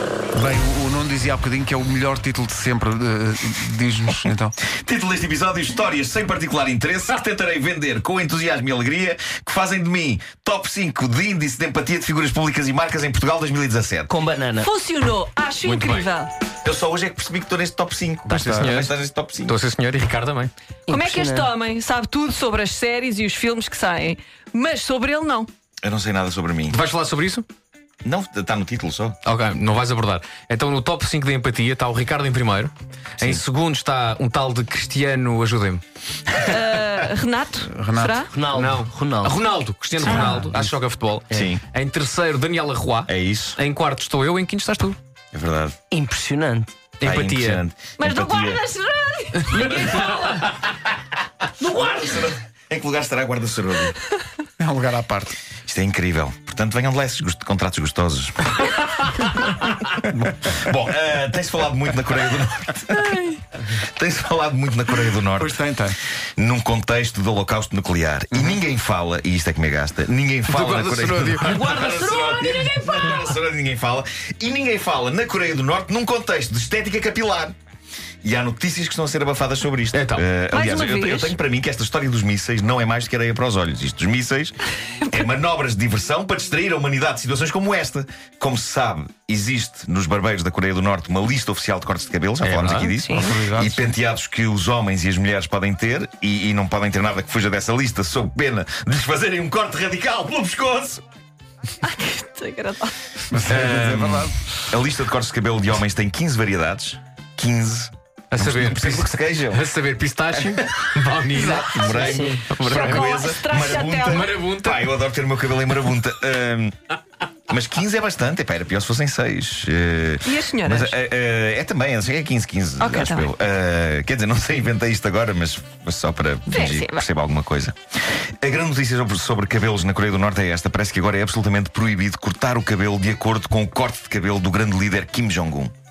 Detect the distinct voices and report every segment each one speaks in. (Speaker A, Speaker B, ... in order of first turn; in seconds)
Speaker A: 0.3-4.5, 18.3-18.8, 37.6-38.2, 54.6-55.4, 65.4-66.0, 70.6-71.3, 93.1-94.0, 103.3-104.3
Speaker B: 4.7-14.1, 16.6-19.6, 25.8-26.8, 28.0-29.2, 41.3-41.6, 43.1-43.6, 45.3-45.8, 47.0-48.6, 51.9-54.0, 55.7-63.2, 63.7-65.6, 66.4-77.5, 78.2-101.0, 103.4-109.7, 110.3-116.7, 117.5-135.7
Speaker C: 14.1-14.7, 20.9-21.5, 38.3-39.4, 45.9-46.7, 49.5-50.4, 51.6-52.3, 71.4-73.2, 112.0-112.5
Speaker D: 14.6-16.3, 20.9-25.5, 36.4-38.3, 40.0-40.4, 48.0-50.4, 62.9-63.4, 80.5-81.3, 92.9-93.2, 101.8-103.2, 112.7-114.3, 120.2-120.9, 122.8-123.3, 126.5-127.0
Speaker E: 15.6-16.1, 18.3-18.9, 19.5-20.5, 26.7-27.5, 29.2-35.8, 38.5-45.0, 47.0-47.6, 79.9-80.3, 92.4-92.9, 108.3-113.2, 114.0-114.8